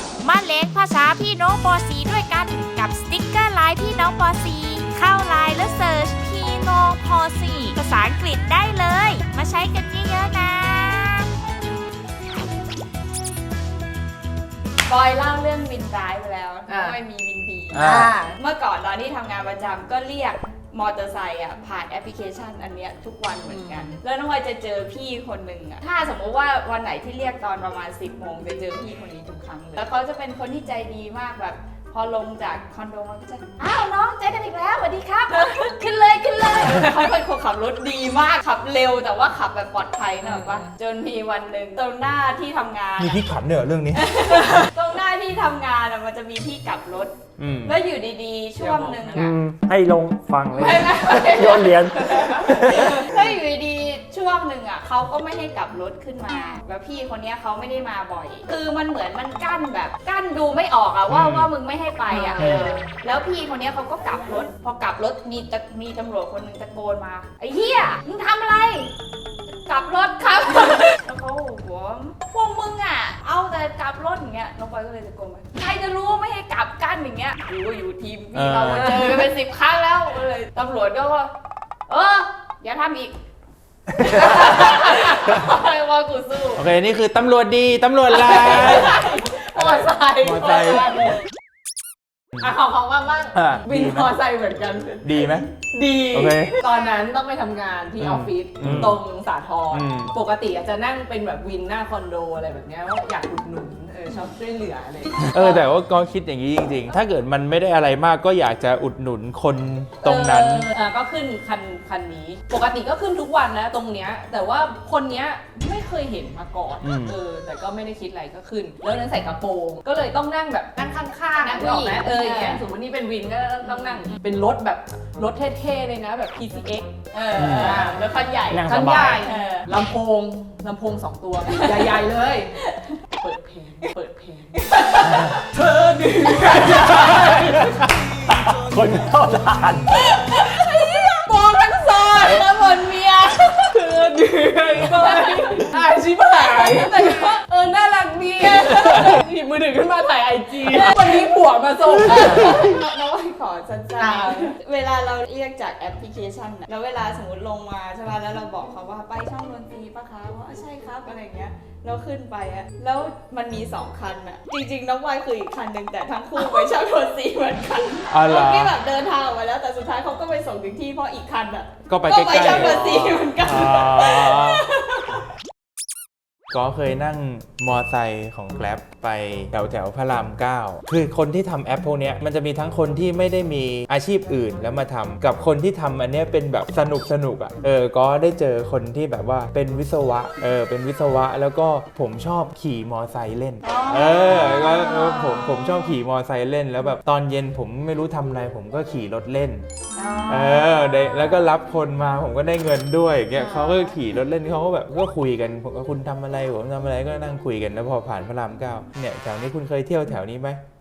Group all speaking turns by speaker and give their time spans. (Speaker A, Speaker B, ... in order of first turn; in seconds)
Speaker A: 0.2-11.3
Speaker B: 14.8-43.2, 43.9-49.4, 50.5-68.9, 69.6-81.3, 81.9-83.1, 84.0-86.6, 88.6-89.7, 90.5-91.2, 121.4-122.7, 123.7-124.2, 127.1-129.7, 131.4-132.0, 132.7-132.9, 139.9-143.8, 144.9-145.8, 146.5-147.3, 150.7-151.2, 152.1-175.2, 193.6-195.8, 199.9-201.4, 203.4-203.9
Speaker C: 16.7-17.0, 17.9-18.4, 23.4-24.0, 40.2-40.7, 48.6-49.3, 62.1-62.8, 84.4-85.2, 88.2-88.9, 89.4-91.1, 92.4-105.6, 110.0-132.5, 133.2-138.2, 140.3-140.6, 141.3-142.4, 143.7-152.7, 154.0-154.5
Speaker D: 17.7-18.1, 43.0-44.0, 47.4-47.8, 61.1-61.5, 62.4-62.7, 78.3-79.1, 84.0-84.5, 86.5-91.1, 93.3-94.2, 95.0-95.5, 96.1-96.5, 98.0-99.0, 99.7-100.1, 105.2-110.7, 116.8-117.2, 127.4-127.8, 168.1-168.8, 171.9-174.6, 176.5-199.6, 200.3-210.6
Speaker E: 49.1-53.1, 128.5-129.3, 136.9-137.7, 138.3-140.0